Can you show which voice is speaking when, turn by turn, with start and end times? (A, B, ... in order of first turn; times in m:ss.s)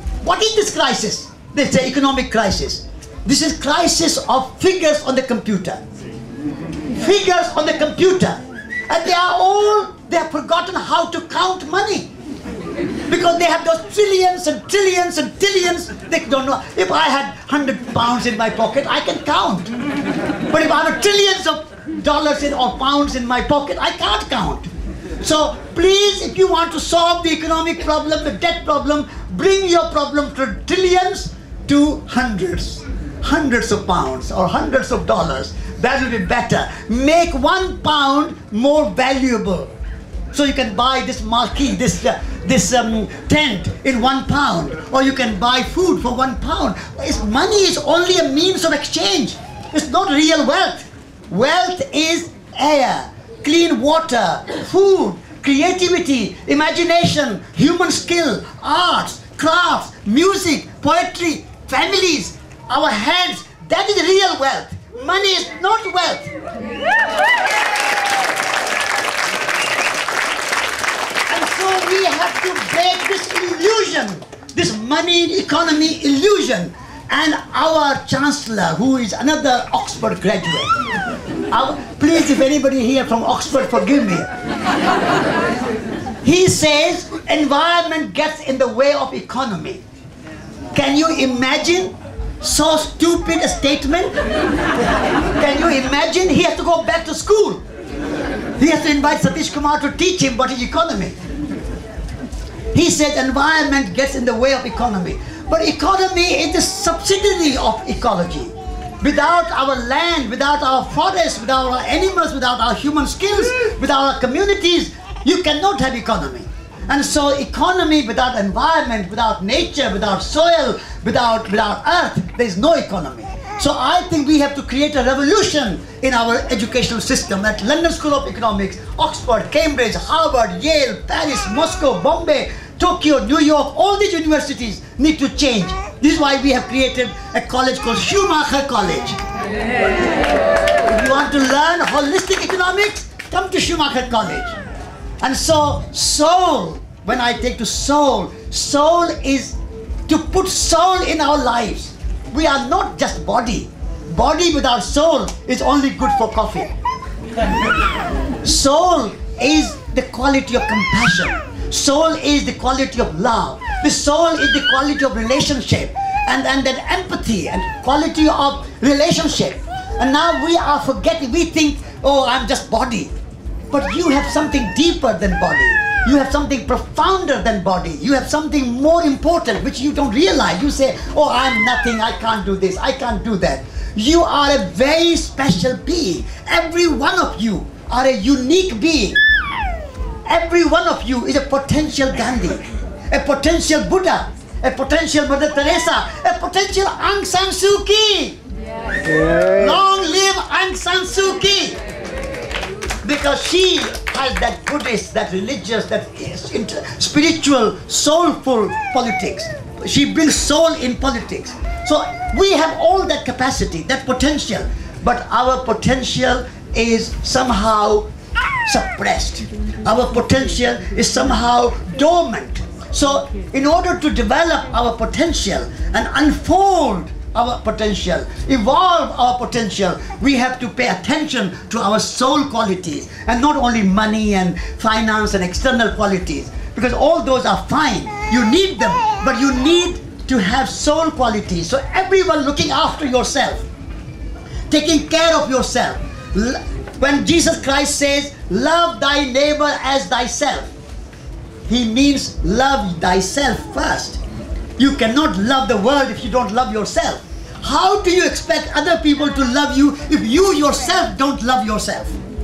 0:00.2-0:05.8 A
0:07.0-0:12.1 A
0:13.1-0:19.7 A
0:20.5-0:24.7 A
0:25.2-0:39.7 A
0:40.3-1:06.3 A
1:11.3-1:20.7 A
1:21.5-1:24.3 A
1:26.2-1:29.8 A
1:30.7-1:34.1 A
1:34.9-1:37.6 A
1:38.6-1:41.2 A
1:42.7-2:19.2 A
2:20.9-2:24.6 A
2:25.2-2:36.7 A
2:38.4-2:53.1 A
2:53.7-3:09.2 A
3:10.2-3:18.4 A
3:19.3-3:21.8 A
3:23.0-3:38.1 A
3:38.6-4:03.6 A
4:04.7-4:10.7 A
4:11.7-4:14.2 A
4:14.8-4:22.1 A